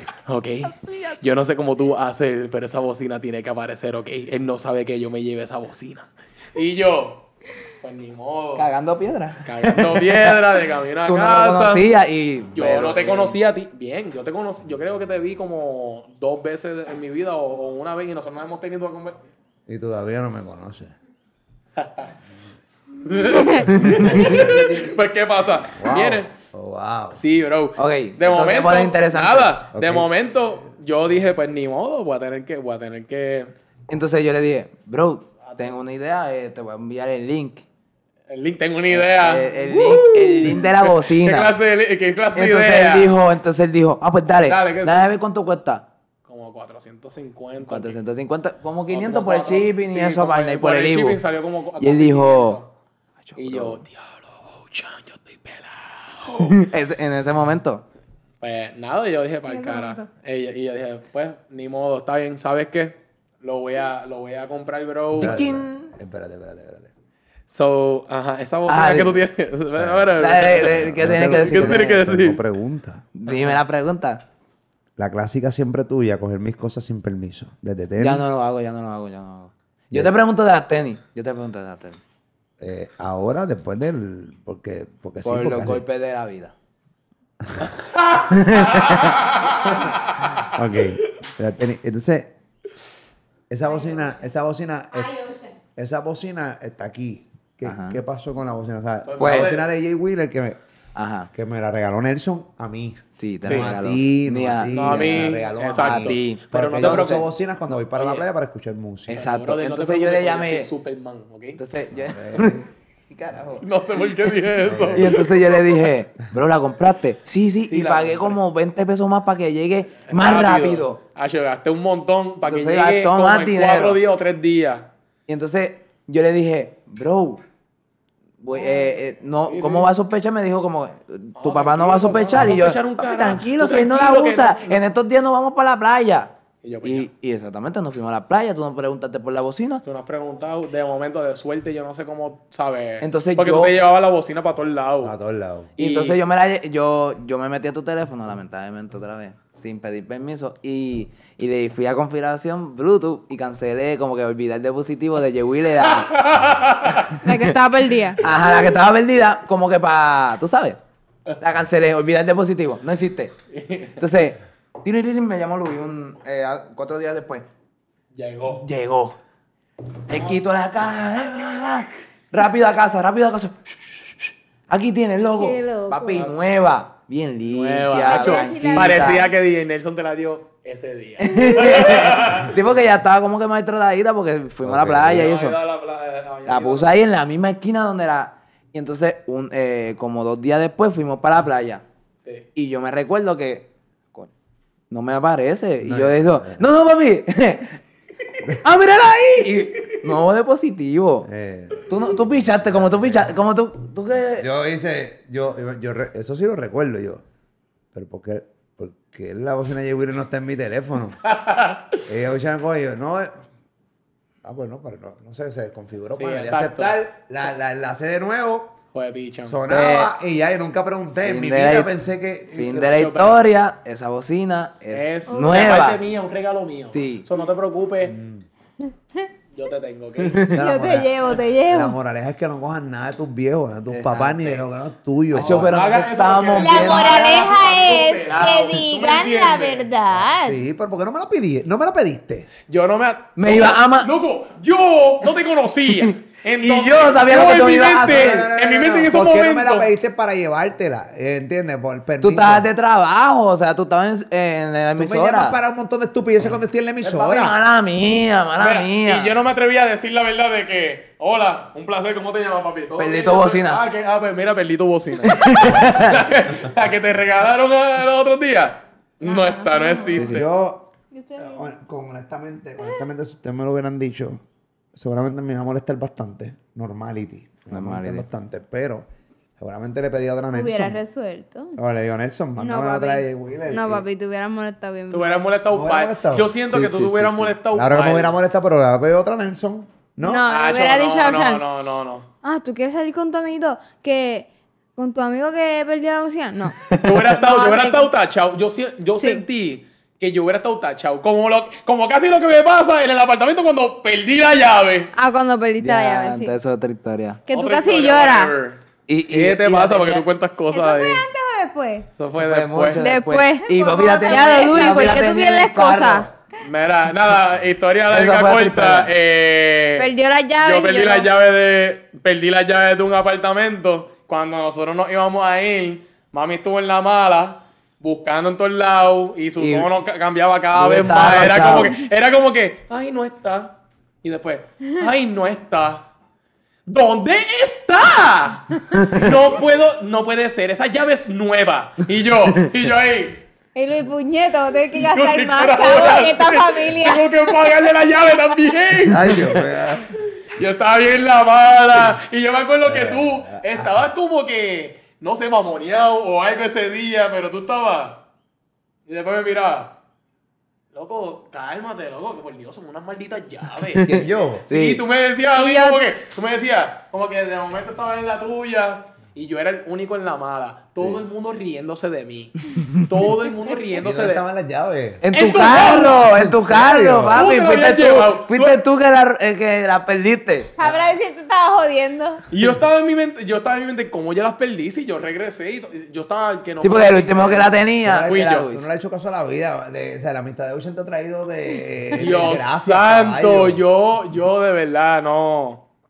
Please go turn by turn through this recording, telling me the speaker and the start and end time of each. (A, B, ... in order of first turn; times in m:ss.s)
0:00.2-0:07.3 A
0:00.8-0:01.1 B
0:07.8-0:08.7 A
0:08.6-0:10.3 B
0:09.4-0:11.9 A
0:11.0-0:13.4 B
0:12.5-0:19.2 A
0:19.7-0:20.9 C
0:21.8-0:22.1 A
0:23.0-0:26.3 A
0:23.4-0:23.6 D
0:23.7-0:24.4 B
0:23.9-0:24.9 C
0:25.7-0:27.2 C
0:27.1-0:33.5 A
0:27.8-0:29.6 B
0:29.7-0:30.1 C
0:33.9-0:37.6 B
0:35.4-0:35.8 A
0:38.3-0:43.1 A
0:38.9-0:41.5 B
0:42.3-0:45.8 B
0:44.3-0:45.1 A
0:46.3-0:48.0 A
0:47.6-0:51.2 B
0:48.9-0:52.7 A
0:51.8-0:52.6 B
0:53.2-0:53.8 B
0:53.4-0:56.6 A
0:56.4-0:57.8 B
0:58.4-1:05.4 A
0:59.5-1:00.0 E
1:05.2-1:05.9 B
1:05.2-1:06.9 C
1:07.5-1:12.4 A
1:08.7-1:09.2 B
1:09.8-1:13.0 C
1:10.1-1:12.0 B
1:13.1-1:14.2 B
1:13.2-1:13.6 A
1:15.0-1:18.2 C
1:18.0-1:22.0 B
1:22.6-1:25.8 C
1:25.2-1:26.5 B
1:27.4-1:27.7 C
1:28.0-1:29.7 A
1:28.3-1:29.3 B
1:30.4-1:32.3 C
1:33.5-1:35.1 C
1:34.9-1:35.5 E
1:35.8-1:40.6 C
1:37.6-1:38.0 B
1:39.0-1:39.7 A
1:39.2-1:39.5 B
1:40.9-1:41.3 B
1:41.3-1:49.2 C
1:43.1-1:47.2 B
1:43.4-1:43.8 A
1:44.7-1:47.3 A
1:47.8-1:48.3 A
1:49.1-1:50.7 B
1:49.1-1:51.6 A
1:51.6-1:53.6 B
1:52.0-1:52.7 C
1:53.6-1:55.6 A
1:54.6-1:55.2 C
1:54.9-2:01.0 B
1:57.7-1:58.4 A
2:00.1-2:04.9 A
2:02.4-2:04.0 B
2:05.3-2:07.4 B
2:08.4-2:19.8 B
2:08.5-2:09.9 A
2:11.4-2:14.8 A
2:16.6-2:17.1 A
2:19.8-2:25.1 A
2:23.0-2:23.7 B
2:25.0-2:25.7 C
2:25.8-2:26.2 A
2:25.8-2:36.2 B
2:35.8-2:37.2 A
2:37.2-2:38.4 D
2:38.2-2:40.8 B
2:41.4-2:43.3 B
2:43.5-2:44.0 A
2:44.0-2:47.5 B
2:48.1-2:48.6 A
2:48.4-2:49.2 B
2:50.1-2:59.3 B
2:50.1-2:50.4 A
2:55.4-2:56.4 E
2:57.5-3:02.6 A
2:58.0-2:59.3 E
3:01.2-3:05.6 B
3:04.6-3:05.3 C
3:05.0-3:06.9 A
3:06.4-3:11.8 B
3:12.5-3:14.3 B
3:14.9-3:17.8 B
3:15.8-3:16.6 C
3:18.5-3:21.3 B
3:21.2-3:23.3 C
3:21.9-3:24.5 B
3:24.4-3:27.2 C
3:27.9-3:31.2 C
3:31.2-3:32.0 A
3:32.0-3:33.4 C
3:34.4-3:38.8 C
3:36.1-3:37.0 A
3:38.9-3:39.6 A
3:39.4-3:42.9 C
3:39.7-3:40.1 B
3:41.2-3:41.9 B
3:42.5-3:46.0 B
3:42.7-3:43.4 A
3:44.9-3:48.1 A
3:45.3-3:45.6 E
3:46.9-3:47.2 B
3:48.0-3:48.4 C
3:49.5-3:50.6 A
3:50.2-3:50.6 B
3:50.5-3:55.8 C
3:50.6-3:52.0 E
3:53.9-3:54.6 B
3:55.3-3:57.5 B
3:55.3-3:59.9 A
3:56.5-4:00.6 E
4:00.4-4:02.5 C
4:02.7-4:09.9 A
4:03.4-4:04.1 B
4:05.9-4:08.4 B
4:08.0-4:12.7 C
4:12.2-4:15.6 B
4:15.0-4:17.6 C
4:17.0-4:19.3 B
4:18.6-4:30.5 A
4:23.0-4:23.8 B
4:25.2-4:26.2 B
4:29.2-4:30.2 E
4:30.1-4:30.4 B
4:30.1-4:34.4 C
4:31.2-4:31.6 E
4:34.9-4:41.0 C
4:37.7-4:38.2 B
4:40.5-4:41.8 E
4:41.8-4:44.0 C
4:42.6-4:45.3 D
4:45.1-4:48.4 A
4:45.7-4:46.5 C
4:46.7-4:47.6 B
4:47.7-4:50.4 C
4:50.2-4:51.6 D
4:50.5-4:52.3 A
4:52.4-4:56.7 D
4:56.8-4:57.2 B
4:57.0-5:05.1 A
4:57.4-4:58.1 D
4:59.2-4:59.4 D
5:05.1-5:06.5 D
5:05.8-5:07.4 B
5:07.5-5:08.5 D
5:07.5-5:11.2 A
5:09.1-5:10.2 B
5:10.7-5:12.1 E
5:12.2-5:13.1 A
5:12.3-5:16.3 B
5:13.0-5:16.3 D
5:13.7-5:15.3 E
5:16.6-5:20.1 A
5:18.1-5:19.1 B
5:20.0-5:21.3 D
5:20.6-5:36.1 A
5:29.6-5:29.9 B
5:30.7-5:32.0 B
5:36.9-5:43.4 A
5:38.9-5:39.3 B
5:43.7-5:47.3 E
5:45.0-5:49.5 A
5:49.1-5:50.1 C
5:49.1-5:49.6 B
5:50.6-5:58.2 A
5:52.8-5:54.0 C
5:59.1-5:59.9 A
6:00.9-6:14.4 A
6:03.9-6:05.0 B
6:04.0-6:04.7 C
6:05.6-6:06.0 D
6:14.0-6:15.2 C
6:15.2-6:20.7 B
6:15.3-6:16.3 A
6:16.1-6:17.4 C
6:17.2-6:18.8 A
6:20.8-6:22.4 E
6:22.5-6:28.6 A
6:26.8-6:28.8 B
6:28.0-6:33.8 C
6:32.1-6:35.8 A